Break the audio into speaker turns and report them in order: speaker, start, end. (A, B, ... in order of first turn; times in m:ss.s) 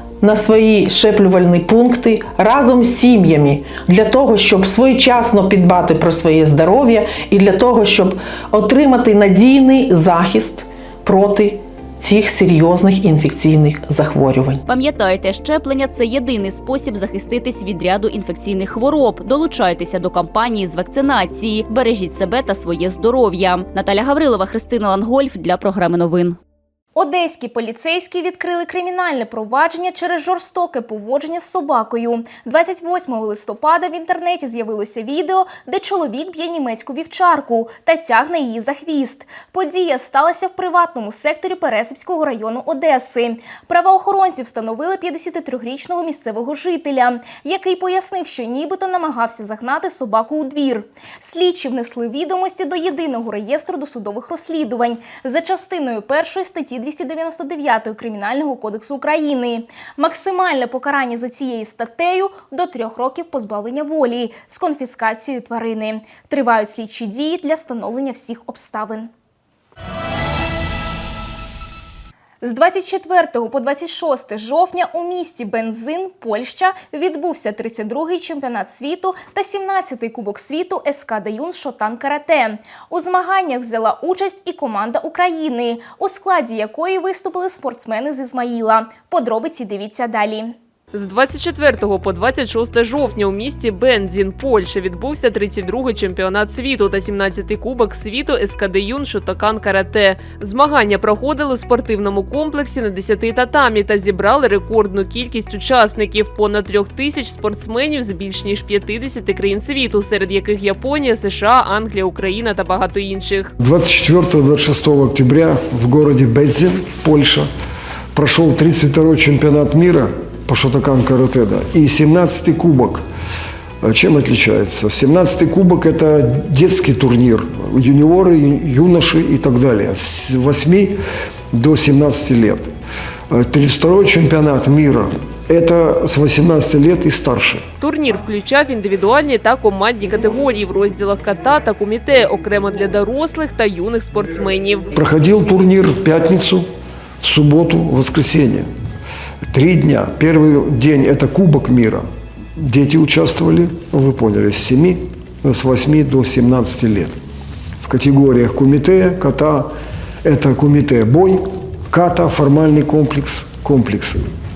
0:00.2-0:14.6 A
0:14.7-0:26.4 B
0:27.0-1:09.1 C
1:12.4-1:30.5 C
1:30.9-1:53.5 D
1:53.6-1:57.5 E
1:58.1-2:03.0 E
2:03.8-2:11.0 E
2:11.5-2:12.7 E
2:13.3-2:17.6 E
2:17.8-2:24.9 D
2:25.0-2:26.7 E
2:27.2-2:28.7 E
2:29.5-2:32.1 E
2:32.6-2:37.2 E
2:37.8-2:39.7 E
2:40.2-2:44.2 E